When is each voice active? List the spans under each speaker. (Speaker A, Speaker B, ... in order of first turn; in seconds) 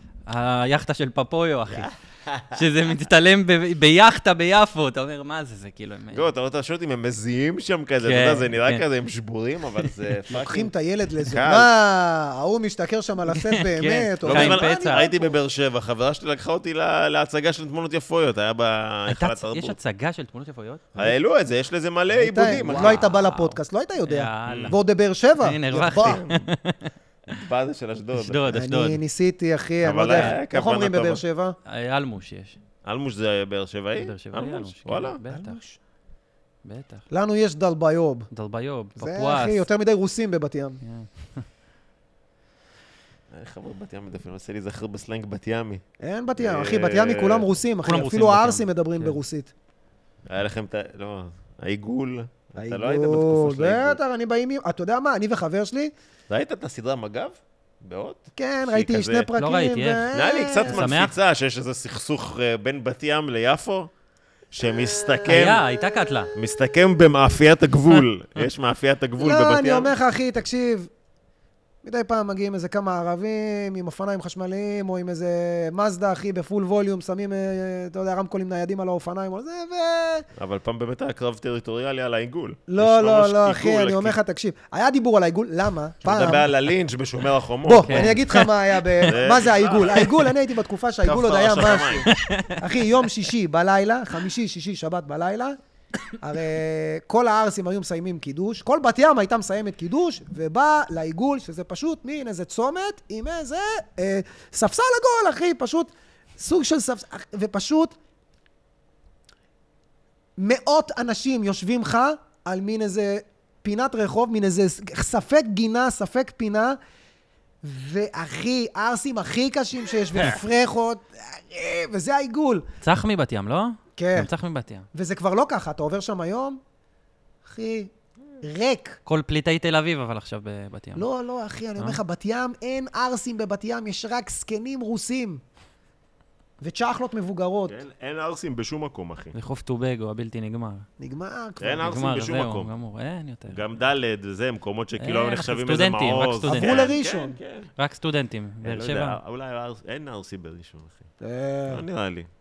Speaker A: 0.3-1.9, 2.5-6.3, 8.0-8.8, 13.3-15.1, 19.1-20.9, 22.4-24.8, 25.4-26.9, 28.2-29.0, 31.6-32.6, 34.0-35.6, 36.6-37.0, 38.3-39.6, 40.8-41.4, 47.8-49.2, 59.4-60.1, 60.6-61.1, 65.2-66.3, 87.8-89.1, 90.0-90.2, 92.0-92.7, 122.8-124.8, 129.1-131.0, 139.3-140.8, 141.8-143.6, 145.0-146.9, 147.8-149.2
Speaker B: 1.7-2.6, 6.1-10.7, 11.2-11.7, 14.2-19.8, 20.9-23.1, 24.5-24.7, 25.9-26.4, 27.3-28.4, 29.8-31.2, 32.8-35.2, 43.3-45.8, 46.4-47.5, 50.3-54.0, 56.3-59.3, 60.1-63.9, 64.5-65.6, 66.3-69.9, 80.4-84.2, 86.0-88.2, 89.0-90.1, 91.0-92.1, 137.7-139.3, 141.6-142.7, 143.5-147.7, 148.6-151.1, 151.7-152.3
Speaker C: 10.3-15.3, 22.1-26.2, 28.5-31.6, 35.3-35.8, 37.1-38.3, 39.0-40.8, 46.0-49.5, 52.6-55.9, 58.4-60.8, 64.8-66.3, 69.2-70.9, 71.8-80.2, 82.7-86.5, 87.6-95.6, 96.2-107.9, 110.4-116.8, 117.6-122.7, 124.0-124.3, 124.9-126.6, 127.4-129.0, 130.9-135.4, 136.6-137.8, 141.0-141.9, 146.5-147.4, 151.2-151.8